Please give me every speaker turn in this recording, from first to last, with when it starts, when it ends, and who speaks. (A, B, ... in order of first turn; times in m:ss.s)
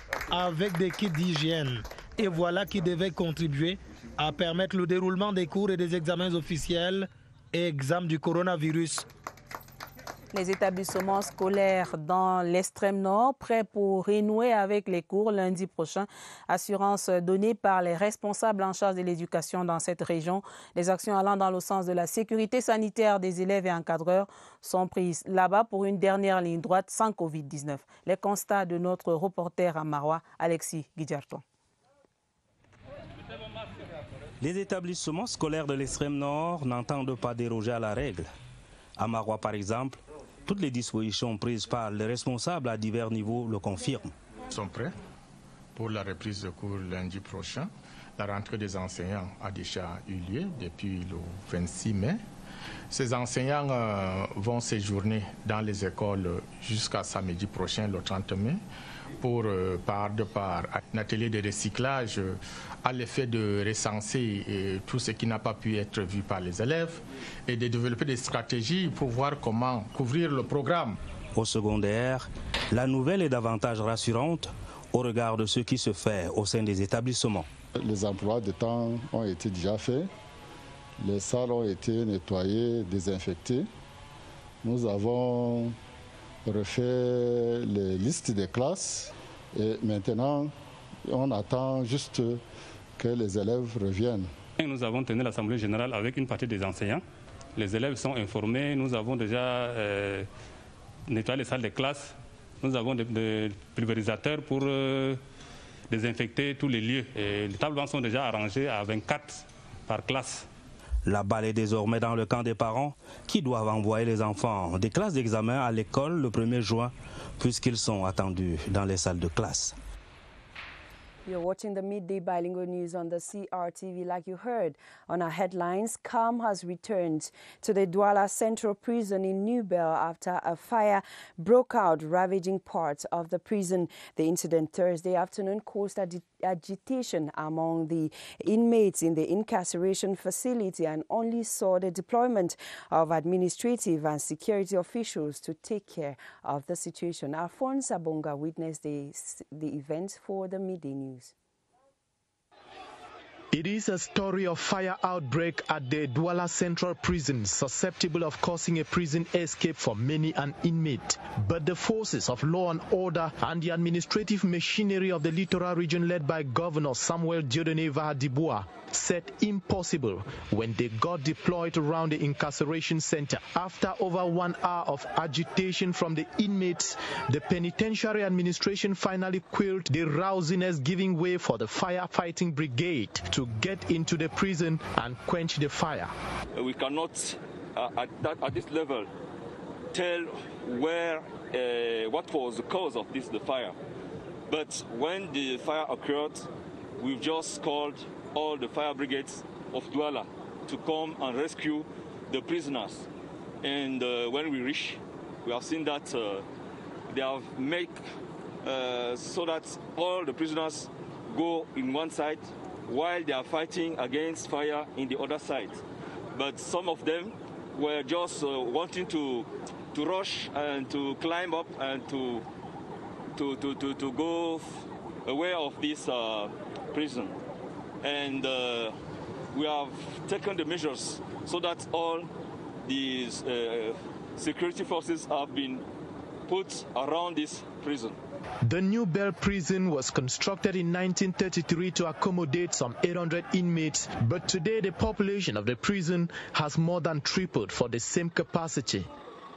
0:00.3-0:09.0 A
0:10.3-0:31.4 B
0:34.4-0:38.3 C
0:39.0-0:44.1 C
0:44.5-0:45.0 D
0:45.7-0:52.2 D
0:52.9-0:58.6 D
0:59.2-1:11.0 D
1:11.3-1:17.5 C
1:17.8-1:20.1 E
1:21.0-1:23.7 E
1:24.6-1:25.7 E
1:26.4-1:30.5 E
1:31.1-1:32.4 E
1:33.0-1:34.3 E
1:34.6-1:37.0 F
1:37.6-1:40.3 F
1:41.1-1:45.2 F
1:45.9-1:50.4 F
1:51.0-1:59.8 C
2:01.2-2:31.3 G
2:33.5-3:06.1 H
3:06.5-3:09.1 I
3:09.9-3:13.7 I
3:14.5-3:16.5 I
3:17.0-3:23.0 I
3:23.6-3:26.4 I
3:27.1-3:28.0 I
3:28.6-3:35.8 I
3:36.3-3:42.4 I
3:43.3-3:47.4 I
3:48.0-3:48.9 I
3:49.5-3:52.3 I
3:52.8-3:55.8 I
3:56.5-3:58.2 I
3:58.6-4:09.1 H